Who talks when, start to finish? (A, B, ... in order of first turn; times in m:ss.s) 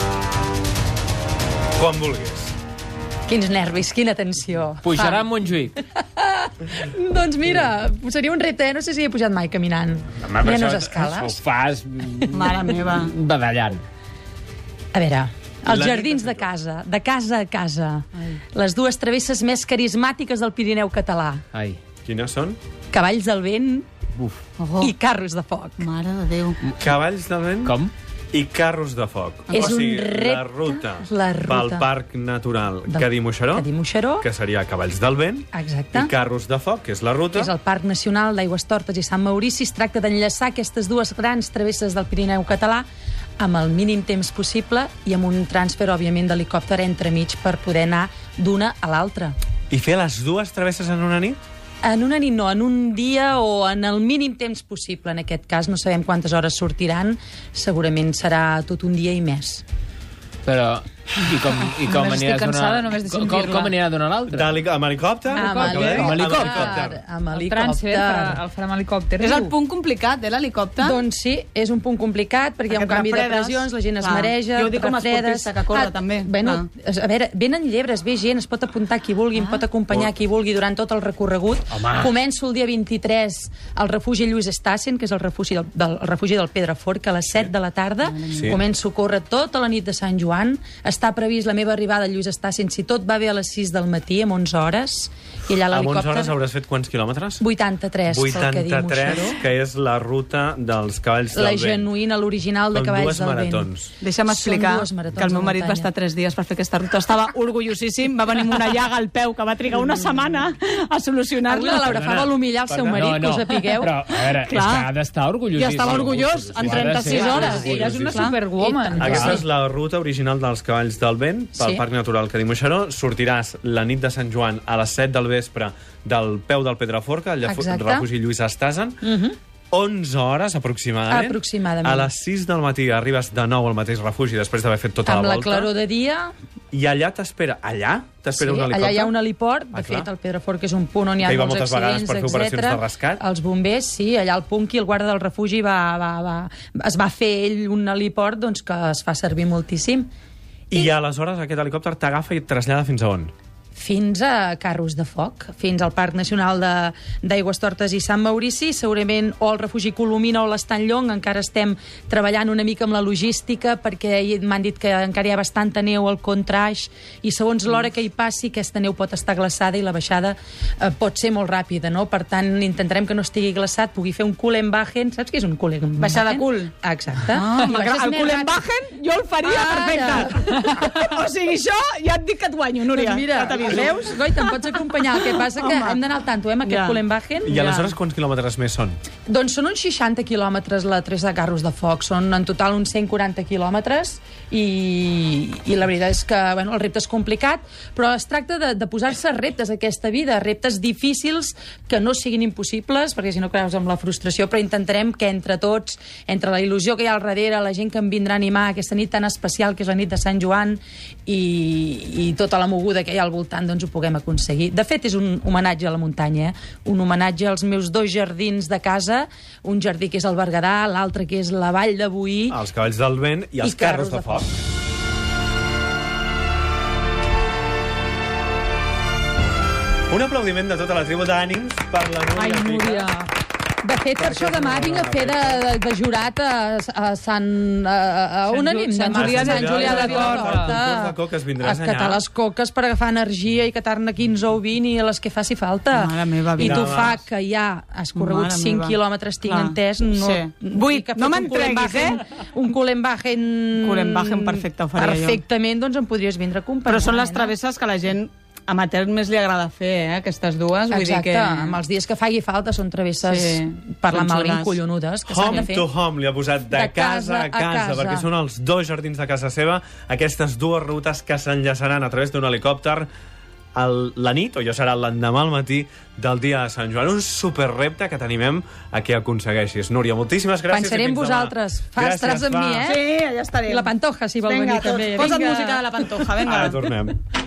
0:01.8-0:02.5 A
0:03.3-0:05.3 B
0:04.8-0:05.8 C
0:05.9-0:11.4 B
0:10.2-0:13.8 C
0:12.3-0:13.1 D
0:14.9-0:21.4 B
0:15.6-0:16.5 A
0:21.5-0:21.8 C
0:22.0-0:22.6 A
0:22.9-0:23.9 B
0:24.6-0:24.9 D
0:24.8-0:25.9 B
0:25.8-0:26.6 D
0:26.8-0:33.7 A
0:27.6-0:27.9 C
0:29.5-0:29.8 D
0:29.5-0:31.9 B
0:32.9-0:34.3 B
0:34.2-0:37.5 A
0:35.5-0:36.1 B
0:37.3-0:42.9 B
0:43.4-0:49.4 B
0:49.7-0:51.4 A
0:51.8-0:59.6 B
1:00.5-1:04.5 C
1:01.8-1:03.8 E
1:04.3-1:07.0 A
1:05.3-1:06.4 E
1:05.4-1:08.4 B
1:06.0-1:06.7 C
1:07.3-1:09.5 E
1:09.2-1:11.0 D
1:10.8-1:36.3 B
1:12.7-1:16.7 D
1:28.1-1:28.6 D
1:28.3-1:28.6 A
1:35.7-1:37.4 A
1:37.4-1:39.4 B
1:38.1-1:41.9 A
1:41.3-1:43.7 B
1:42.7-1:43.9 A
1:44.0-1:52.0 D
1:44.3-1:45.9 B
1:51.5-1:54.0 B
1:51.8-1:53.0 A
1:53.0-1:58.3 C
1:54.1-1:54.9 D
1:55.5-1:58.4 D
1:57.0-1:57.8 B
1:57.3-1:58.2 A
1:57.6-1:59.4 E
1:58.6-1:59.4 B
1:59.0-2:09.0 A
2:01.6-2:01.8 B
2:07.4-2:08.1 B
2:09.0-2:09.4 B
2:09.7-2:15.7 A
2:11.1-2:12.1 B
2:15.1-2:16.3 B
2:16.7-2:19.2 A
2:18.4-2:30.1 B
2:19.7-2:20.1 A
2:21.2-2:23.2 A
2:30.7-2:33.3 A
2:33.8-2:58.6 B
2:56.0-2:56.7 D
2:57.3-3:06.0 D
2:59.4-3:00.4 B
3:02.9-3:07.5 B
3:03.7-3:04.0 A
3:06.6-3:08.0 D
3:07.4-3:09.0 A
3:09.3-3:42.6 B
3:42.5-3:44.5 A
3:43.6-3:44.6 B
3:50.1-3:53.1 A
3:52.3-3:53.3 E
3:53.8-4:17.5 B
3:54.2-3:55.6 A
3:58.5-4:00.8 E
3:59.0-4:02.2 A
4:05.9-4:06.9 D
4:06.6-4:07.2 A
4:08.2-4:12.2 D
4:13.8-4:15.4 D
4:16.9-4:21.8 D
4:20.9-4:25.9 B
4:23.2-4:24.8 D
4:25.3-4:33.1 A
4:26.7-4:28.3 B
4:33.8-4:42.9 A
4:40.7-4:43.0 B
4:42.8-4:43.9 D
4:43.7-4:45.8 B
4:44.4-4:46.8 D
4:46.4-4:47.2 A